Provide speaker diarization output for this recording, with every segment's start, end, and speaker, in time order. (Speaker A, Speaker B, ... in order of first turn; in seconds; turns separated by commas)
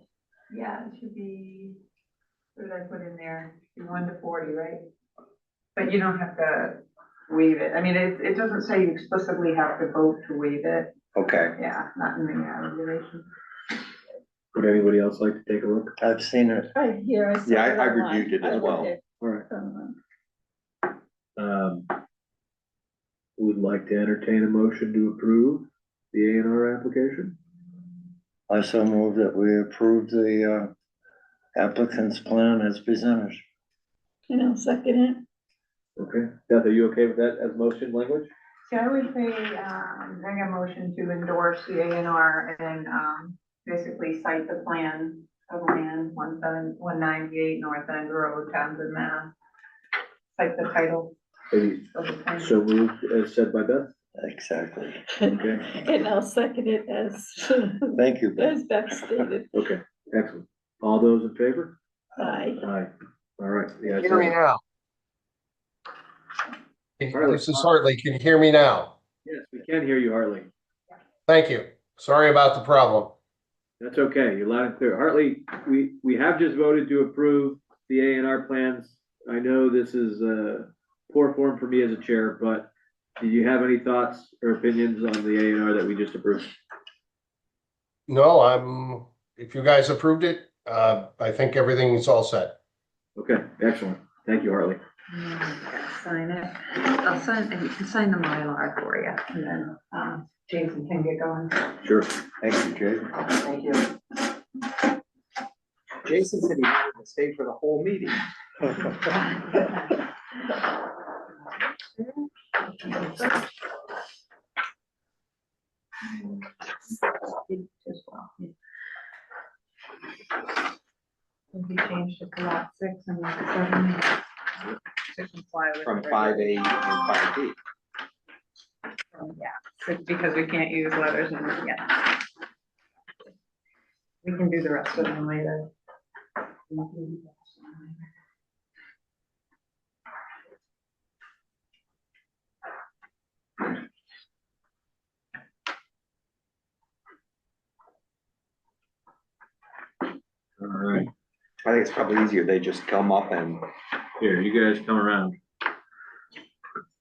Speaker A: 0.5-1.8, Speaker A: 2.5-4.8, Speaker A: 5.8-10.9, Speaker B: 11.1-11.5, Speaker A: 11.6-13.3, Speaker C: 14.5-16.0, Speaker D: 16.0-16.7, Speaker E: 16.7-20.0, Speaker B: 17.4-18.9, Speaker C: 19.2-19.4, Speaker C: 21.4-21.9, Speaker C: 23.4-27.4, Speaker D: 28.5-30.7, Speaker D: 31.6-33.4, Speaker E: 34.3-35.2, Speaker C: 36.0-38.3, Speaker A: 38.7-49.3, Speaker A: 50.3-51.2, Speaker C: 51.5-53.9, Speaker A: 51.9-52.6, Speaker D: 54.2-55.0, Speaker E: 55.2-59.5, Speaker C: 55.3-55.7, Speaker D: 57.9-59.3, Speaker C: 59.5-61.8, Speaker E: 62.2-62.7, Speaker C: 62.6-64.3, Speaker F: 63.9-64.6, Speaker F: 67.0-69.0, Speaker C: 67.1-67.7, Speaker C: 69.2-70.5, Speaker F: 71.3-73.1, Speaker C: 73.8-86.5, Speaker F: 88.1-92.5, Speaker C: 93.2-94.8, Speaker A: 95.1-101.7, Speaker C: 101.8-102.1, Speaker B: 102.4-103.0, Speaker A: 103.3-103.9, Speaker B: 106.0-108.2, Speaker A: 108.9-109.8, Speaker A: 111.8-113.4, Speaker A: 117.2-118.5, Speaker A: 121.5-124.2, Speaker A: 125.1-126.6, Speaker B: 125.8-127.6, Speaker A: 129.1-132.2, Speaker A: 134.2-135.7, Speaker A: 136.7-138.0, Speaker C: 150.6-151.1, Speaker B: 151.6-153.6, Speaker C: 154.2-155.3